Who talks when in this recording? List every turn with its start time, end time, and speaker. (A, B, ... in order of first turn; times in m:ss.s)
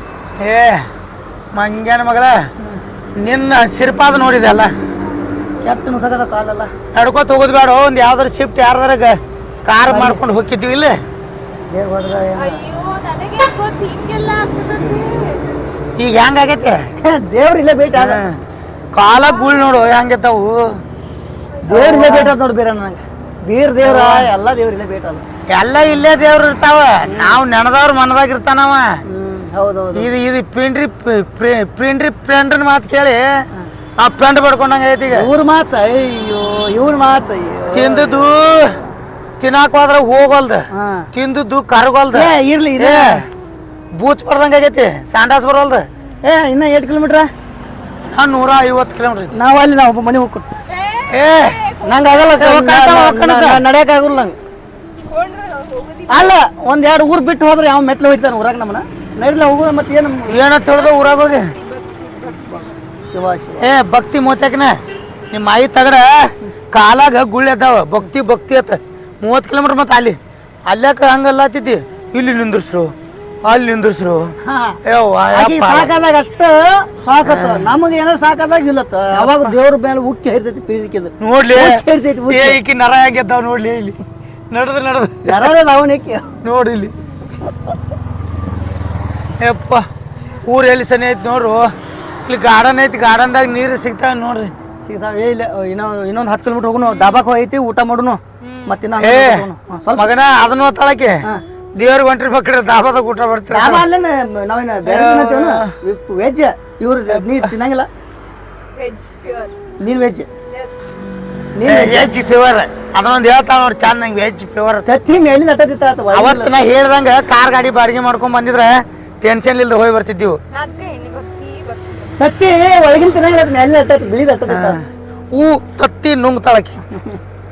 0:00.4-0:00.8 A
0:01.5-0:02.4 A
0:03.2-0:04.7 A
0:05.6-0:06.7 B
0:06.9-0:11.0 A
0:09.9-0:10.2 B
0:11.7-0:12.6 B
0:12.4-0:15.4 C
0:16.0-0:16.8 A
0:17.0-0:18.2 B
0:17.9-0:18.4 A
0:18.9-0:20.8 A
0:19.1-0:19.8 C
0:21.6-0:25.2 B
0:21.6-0:22.4 A
0:23.8-0:24.3 A
0:25.5-0:28.9 A
0:27.0-0:27.4 B
0:29.1-0:30.1 B
0:29.9-0:33.2 A
0:34.0-0:35.3 A
0:35.1-0:38.3 B
0:37.7-0:38.8 A
0:39.4-0:43.3 A
0:40.7-0:41.1 B
0:42.1-0:43.3 B
0:44.0-0:45.9 A
0:46.2-0:47.3 B
0:48.0-0:49.4 A
0:49.3-0:50.5 B
0:50.7-0:52.4 C
0:51.1-0:51.6 A
0:51.8-0:54.4 B
0:52.4-0:53.6 A
0:55.1-0:56.4 C
0:56.1-1:00.4 B
1:00.3-1:01.6 A
1:00.6-1:02.8 C
1:03.0-1:03.7 B
1:03.6-1:04.8 A
1:05.3-1:14.3 A
1:14.4-1:14.8 B
1:14.8-1:15.9 A
1:15.3-1:22.6 B
1:17.2-1:17.7 A
1:19.1-1:19.6 A
1:21.2-1:24.0 A
1:24.5-1:25.5 A
1:25.3-1:26.3 B
1:26.4-1:26.9 A
1:29.4-1:29.8 A
1:30.4-1:31.7 A
1:32.2-1:34.5 A
1:34.8-1:40.1 B
1:36.8-1:37.2 C
1:38.4-1:38.8 C
1:39.0-1:41.2 A
1:41.8-1:43.8 A
1:43.5-1:47.9 B
1:44.8-1:45.7 A
1:48.8-1:49.6 C
1:49.8-1:50.3 B
1:50.5-1:50.8 C
1:51.5-1:52.1 B
1:51.7-1:54.9 A
1:54.8-1:56.6 B
1:56.1-2:00.4 A
2:00.5-2:02.2 C
2:02.2-2:04.8 B
2:04.5-2:06.8 A